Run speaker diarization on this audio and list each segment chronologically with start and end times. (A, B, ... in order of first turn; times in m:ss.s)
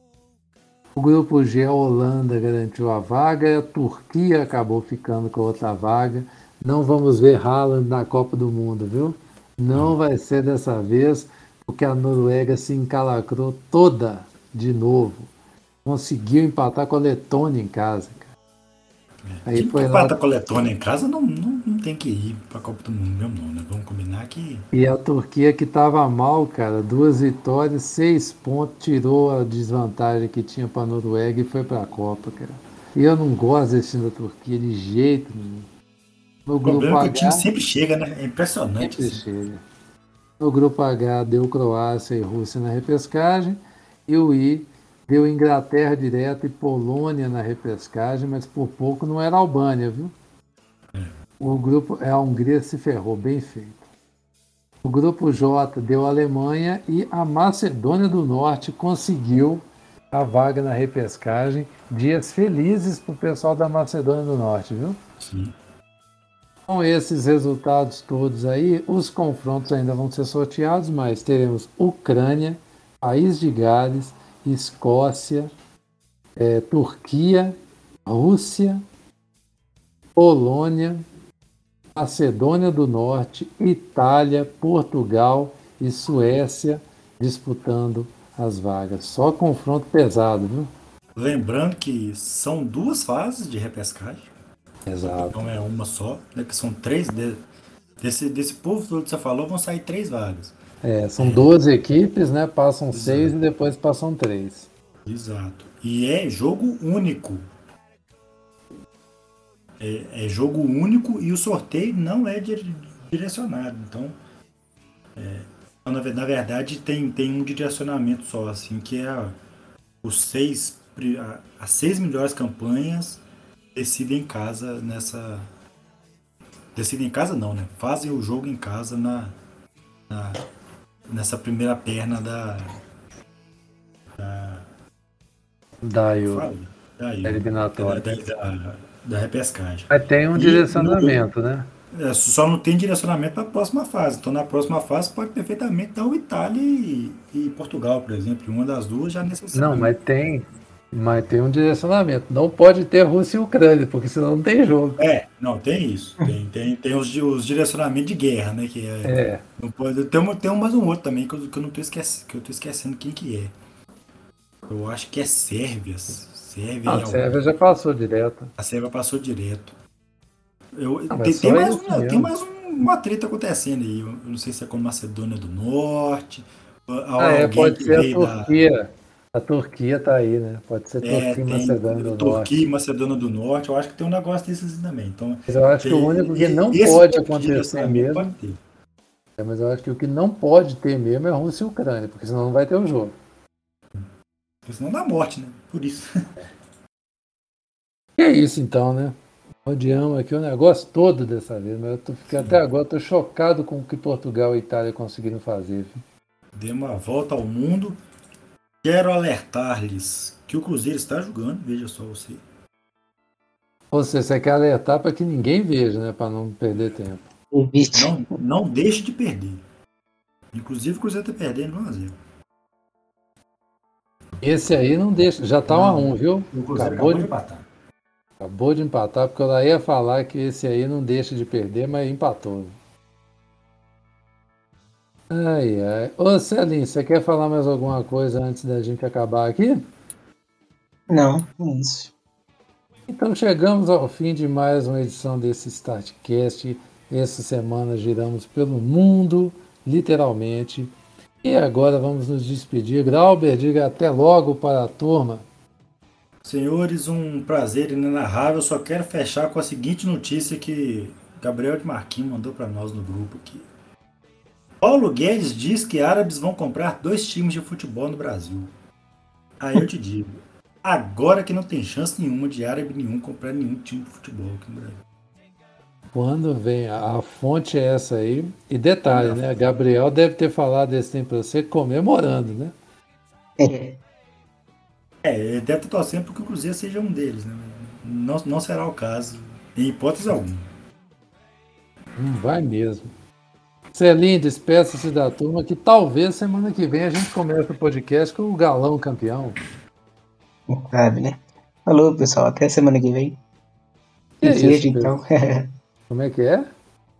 0:01.0-0:15.3 A
0:15.8-0:18.3 A
0:19.2-0:24.7 B
0:19.5-0:20.2 A
0:24.7-0:35.7 A
0:36.5-0:37.4 A
0:36.6-0:39.2 B
0:38.8-0:39.6 A
0:40.4-0:50.2 A
0:51.4-0:53.8 A
0:54.8-1:05.0 A
1:05.2-1:05.5 B
1:06.7-1:15.5 A
1:16.4-1:18.8 A
1:20.2-1:21.0 A
1:22.0-1:30.7 A
1:31.2-1:34.3 B
1:34.9-1:35.4 A
1:35.1-1:37.4 B
1:38.0-1:40.6 B
1:40.8-1:44.7 A
1:41.2-1:41.5 B
1:42.9-1:43.3 B
1:45.1-1:47.4 B
1:49.8-1:54.2 B
1:55.2-1:59.4 B
2:00.0-2:03.2 B
2:03.7-2:05.5 B
2:06.8-2:09.4 B
2:10.1-2:10.4 B
2:11.1-2:12.8 B
2:14.2-2:14.7 B
2:15.8-2:16.5 A
2:16.2-2:21.2 B
2:17.2-2:18.0 A
2:19.9-2:21.7 A
2:21.9-2:30.0 B
2:29.5-2:35.0 A
2:35.0-2:43.5 B
2:39.0-2:39.4 A
2:44.7-2:47.4 B
2:46.9-2:48.5 A
2:48.6-2:49.8 B
2:50.7-2:58.6 B
2:51.1-2:52.3 A
2:57.2-3:02.6 A
3:01.0-3:08.6 B
3:05.5-3:08.3 A
3:09.4-3:13.2 A
3:14.6-3:16.1 B
3:18.2-3:26.0 A
3:22.3-3:22.6 B
3:26.5-3:28.0 B
3:28.8-3:32.4 B
3:33.9-3:37.2 A
3:37.5-3:38.2 C
3:37.9-3:39.6 B
3:40.5-3:42.2 B
3:44.4-3:47.3 A
3:45.7-3:47.6 B
3:48.4-3:52.8 A
3:55.3-3:59.9 A
4:01.1-4:02.1 C
4:03.1-4:15.5 A
4:16.4-4:23.7 B
4:24.8-4:28.7 B
4:29.6-4:35.0 B
4:36.1-4:42.7 A
4:39.1-4:39.6 B
4:43.6-4:44.0 C
4:45.2-4:50.7 B
4:52.2-4:53.1 A
4:53.9-4:59.6 A
5:00.7-5:03.4 C
5:04.4-5:05.2 A
5:04.4-5:05.7 C
5:06.1-5:06.7 A